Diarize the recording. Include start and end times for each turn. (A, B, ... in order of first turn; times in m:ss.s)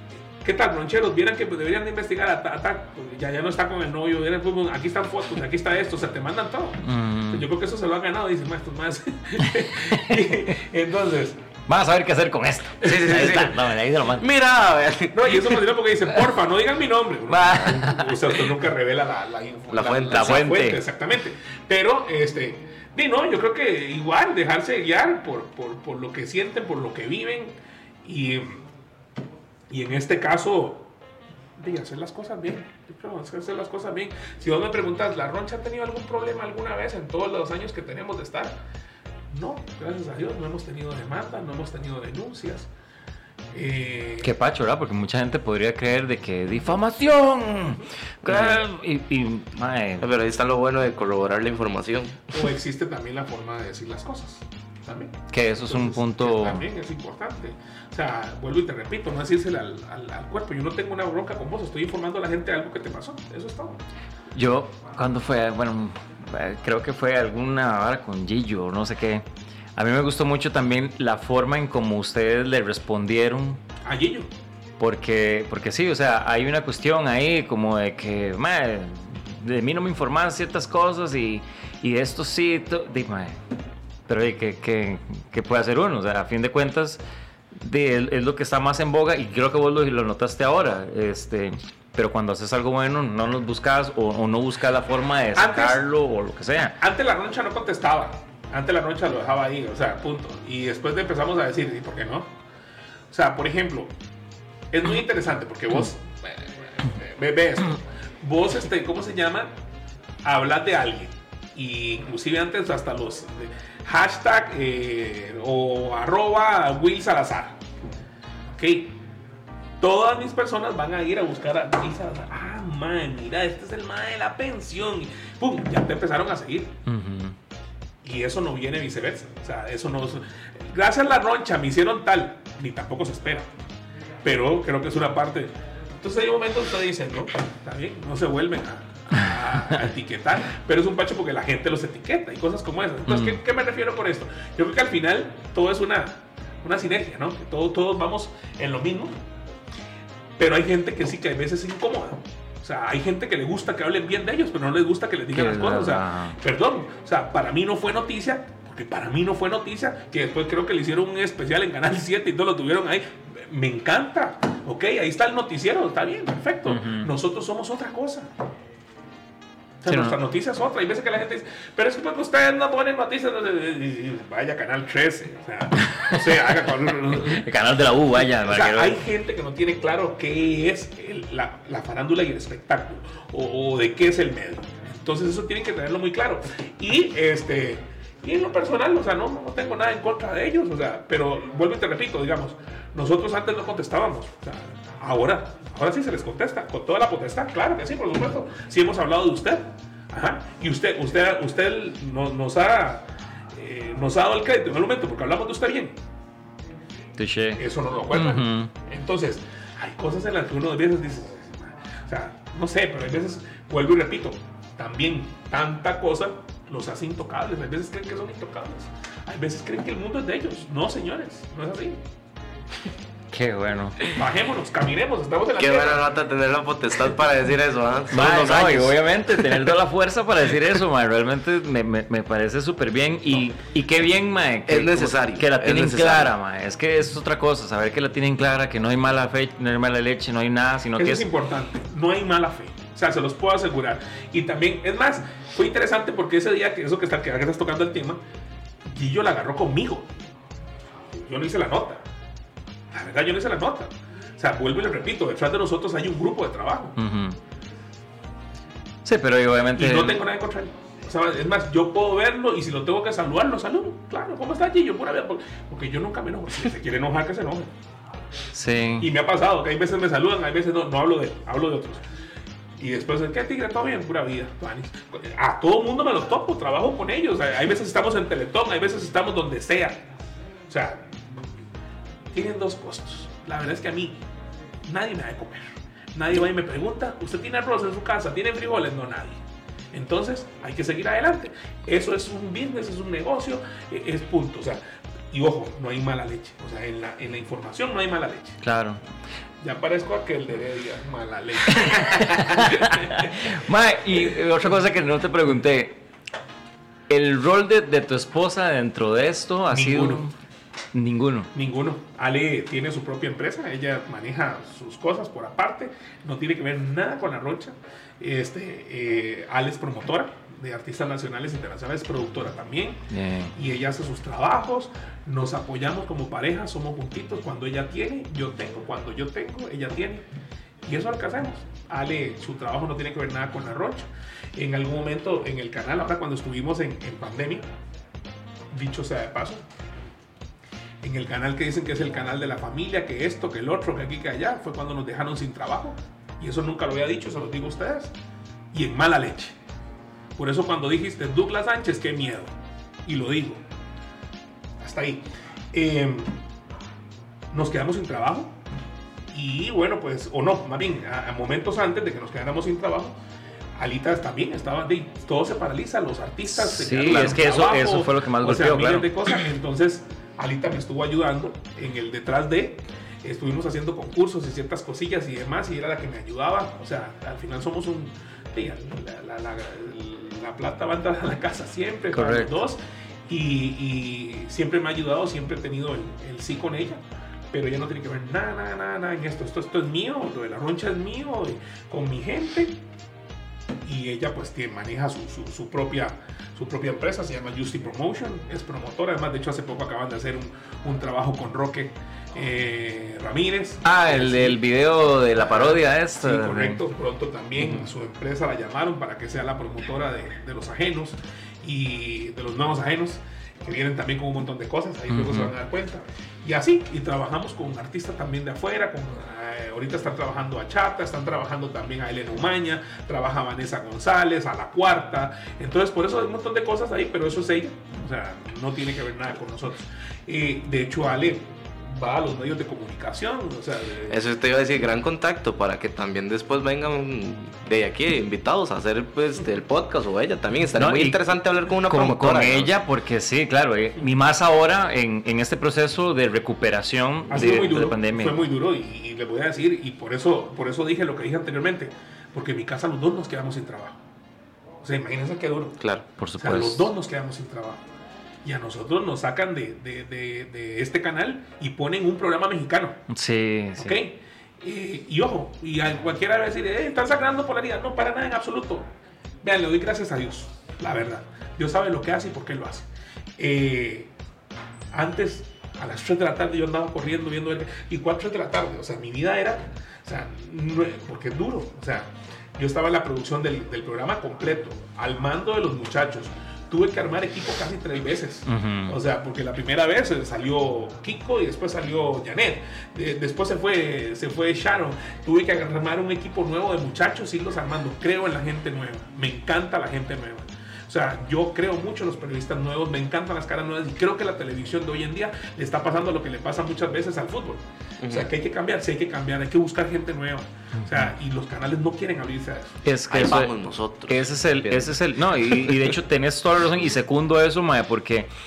0:00.4-0:11.4 A
0:06.8-0:07.5 B
0:09.6-0:10.4 B
0:11.7-0:14.3 B
0:12.8-0:13.5 A
0:12.8-0:13.6 C
0:14.2-0:15.6 C
0:15.1-0:28.6 A
0:17.3-0:18.4 B
0:19.7-0:20.4 C
0:20.1-0:20.8 B
0:29.7-0:30.9 A
0:31.6-0:38.6 A
0:39.3-0:42.7 A
0:43.5-0:44.3 A
0:44.2-0:50.1 B
0:48.3-0:48.6 C
0:50.0-0:52.2 C
0:52.3-1:03.8 A
0:55.3-0:56.6 B
1:04.3-1:13.6 B
1:13.8-1:14.3 A
1:14.8-1:23.4 B
1:24.1-1:27.0 B
1:27.6-1:36.8 B
1:35.4-1:35.8 A
1:36.8-1:42.3 A
1:43.1-1:43.9 A
1:44.7-1:49.6 A
1:50.2-1:57.6 A
1:58.6-1:59.0 A
1:59.8-2:06.8 A
2:06.9-2:07.4 B
2:08.0-2:13.5 A
2:14.2-2:29.2 A
2:19.2-2:19.8 B
2:23.0-2:23.4 B
2:30.4-2:48.3 A
2:35.3-2:36.4 B
2:46.7-2:47.1 B
2:49.8-2:57.5 A
2:49.9-2:50.2 B
2:56.0-2:59.0 B
2:58.2-3:26.0 A
3:27.2-3:28.7 B
3:27.6-3:42.0 A
3:43.3-3:44.0 B
3:44.1-3:46.1 A
3:45.6-3:49.0 C
3:48.1-4:01.3 B
3:54.7-3:56.3 C
4:01.0-4:08.2 A
4:08.9-4:10.2 A
4:11.1-4:12.0 A
4:12.9-4:17.0 A
4:17.0-4:17.4 B
4:19.0-4:20.2 B
4:19.8-4:27.7 A
4:28.5-4:29.1 B
4:29.0-4:32.1 A
4:32.8-4:40.1 A
4:40.7-4:41.4 A
4:42.3-4:44.2 A
4:44.9-4:49.4 A
4:49.9-4:58.6 A
4:58.6-4:59.0 B
4:59.6-5:03.6 A
5:01.7-5:06.0 B
5:07.1-5:10.3 B
5:09.7-5:10.3 A
5:10.9-5:11.5 B
5:11.5-5:30.3 A
5:23.1-5:23.5 B
5:30.8-5:37.7 A
5:38.7-5:39.6 A
5:41.0-5:48.1 A
5:48.7-5:49.6 A
5:50.4-5:53.6 A
5:54.8-5:56.4 A
5:57.5-5:58.6 A
5:59.3-6:03.2 A
6:03.8-6:27.0 A
6:06.5-6:09.3 B
6:22.1-6:22.5 B
6:27.5-6:32.8 A
6:33.8-6:44.6 A
6:43.8-6:46.8 B
6:45.4-7:14.2 A
6:55.1-6:55.5 B
7:14.1-7:22.7 C
7:20.8-7:21.2 B
7:21.9-7:28.4 B
7:27.3-7:34.0 A
7:34.8-7:35.8 A
7:35.8-7:36.1 C
7:36.2-7:36.9 B
7:36.4-7:37.8 A
7:38.4-7:43.0 A
7:43.1-7:44.0 B
7:43.8-7:48.9 A
7:49.4-7:54.1 A
7:54.9-8:32.8 A
8:08.5-8:09.0 B
8:28.0-8:28.3 C
8:30.8-8:31.1 B
8:32.8-8:38.3 B
8:33.1-8:35.9 C